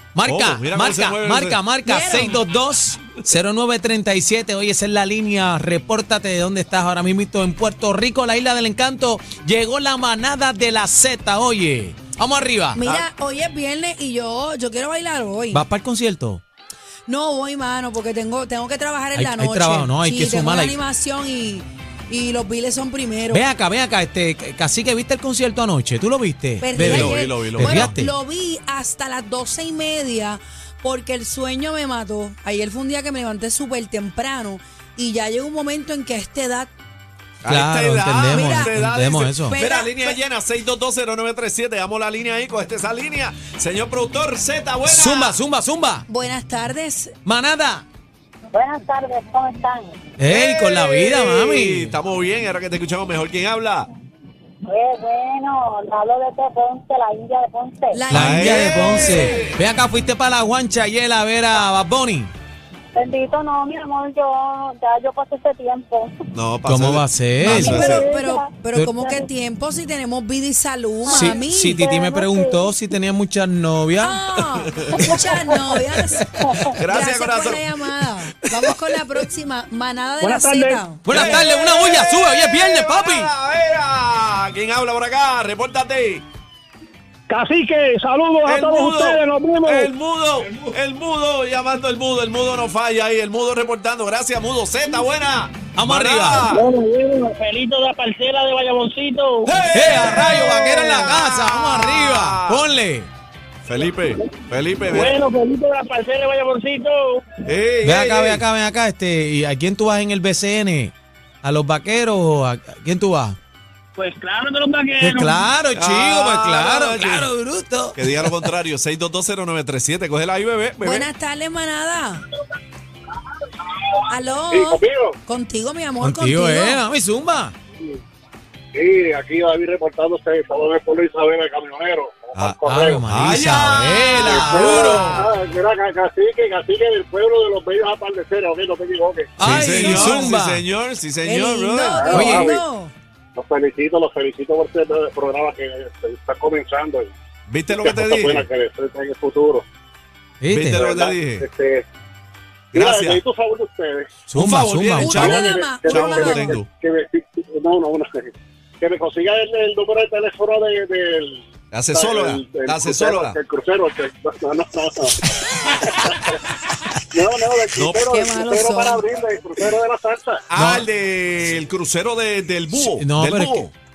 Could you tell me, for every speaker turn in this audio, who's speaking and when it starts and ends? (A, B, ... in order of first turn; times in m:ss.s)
0:00.1-0:12.8 A
0:00.2-0:01.6 B
0:01.8-0:02.4 C
0:12.8-0:15.6 C
0:15.5-0:16.4 A
0:17.1-0:23.4 C
0:19.1-0:20.8 A
0:23.3-0:28.1 A
0:26.6-0:36.7 C
0:26.8-0:28.0 B
0:37.4-0:39.6 A
0:37.4-0:45.4 B
0:38.3-0:38.8 C
0:39.5-0:40.2 C
0:44.9-0:46.1 A
0:46.1-0:47.1 C
0:47.2-0:47.8 A
0:48.5-0:50.0 D
0:50.2-0:52.0 A
0:50.3-0:53.9 B
0:54.6-0:58.0 D
0:57.9-0:59.5 C
0:58.1-1:02.3 A
0:58.1-0:59.6 B
1:02.9-1:06.1 D
1:06.3-1:08.1 B
1:06.6-1:07.9 A
1:07.5-1:11.8 C
1:07.6-1:09.2 D
1:11.0-1:12.6 D
1:11.1-1:14.2 A
1:14.0-1:21.1 C
1:14.8-1:15.4 B
1:14.9-1:15.2 D
1:16.7-1:17.6 B
1:20.3-1:20.8 E
1:21.0-1:23.3 A
1:21.1-1:26.2 B
1:27.3-1:29.6 E
1:28.4-1:36.7 B
1:35.8-1:36.5 A
1:36.5-1:39.7 E
1:39.4-1:42.7 B
1:39.7-1:43.1 A
1:43.6-1:45.2 B
1:44.9-1:47.2 E
1:47.4-1:48.4 B
1:47.8-1:53.4 A
1:54.0-1:55.4 E
1:55.0-1:58.5 A
1:55.7-1:57.3 B
1:57.9-2:01.1 B
2:00.8-2:02.3 C
2:04.1-2:06.8 C
2:04.5-2:05.2 F
2:06.0-2:07.5 A
2:08.7-2:13.0 F
2:12.3-2:15.2 B
2:12.7-2:15.2 A
2:14.1-2:20.1 F
2:19.4-2:20.6 A
2:19.4-2:22.2 B
2:21.2-2:22.9 C
2:21.8-2:22.6 F
2:22.1-2:22.5 A
2:23.4-2:27.1 F
2:27.5-2:28.5 B
2:27.7-2:29.6 F
2:30.4-2:30.9 A
2:30.5-2:31.5 B
2:30.7-2:31.8 F
2:32.7-2:33.2 B
2:32.8-2:34.1 F
2:34.3-2:35.6 A
2:34.4-2:36.7 B
2:35.0-2:36.6 C
2:35.1-2:46.4 F
2:41.7-2:43.4 B
2:47.1-2:50.4 F
2:47.7-2:48.1 B
2:48.1-2:49.0 C
2:50.5-2:53.7 B
2:50.6-2:50.9 A
2:52.8-2:53.7 A